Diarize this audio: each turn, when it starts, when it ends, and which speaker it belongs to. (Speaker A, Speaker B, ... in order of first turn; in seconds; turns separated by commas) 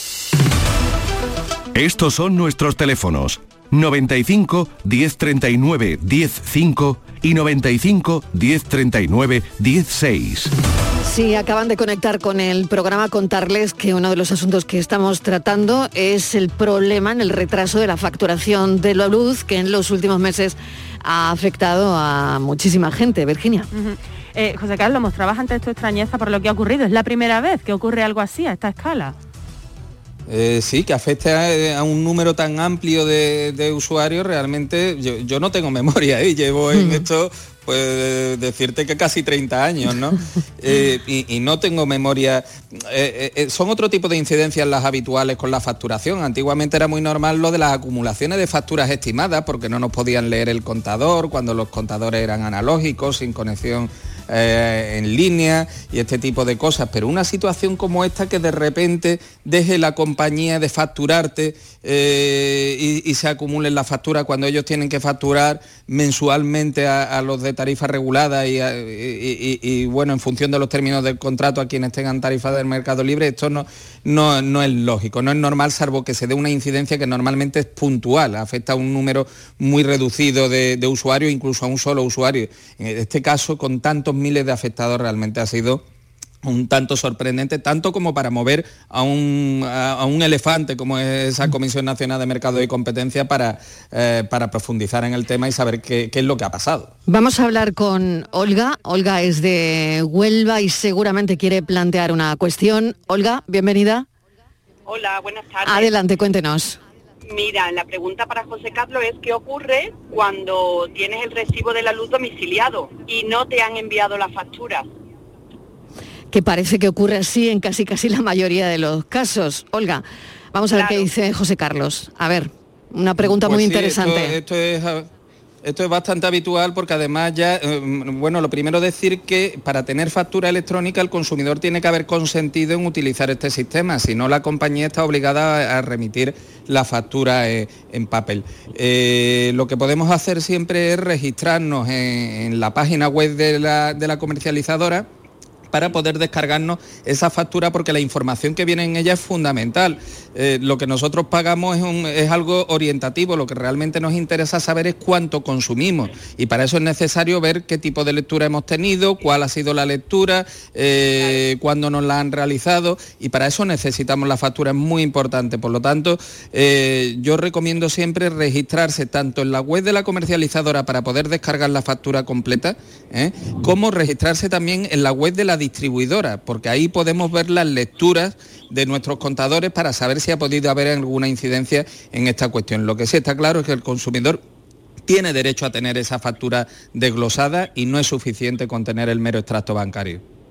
Speaker A: 1.7-10.5, Speaker B: 11.0-23.7, Speaker C: 23.7-29.1, Speaker D: 30.3-85.8, Speaker B: 36.7-37.0, Speaker D: 86.4-96.9, Speaker B: 97.1-104.0, Speaker E: 104.9-105.7, Speaker B: 105.7-106.8, Speaker E: 107.7-114.8, Speaker B: 116.3-124.4, Speaker D: 123.2-125.1, Speaker D: 125.6-145.1, Speaker D: 145.7-184.4, Speaker D: 185.1-190.2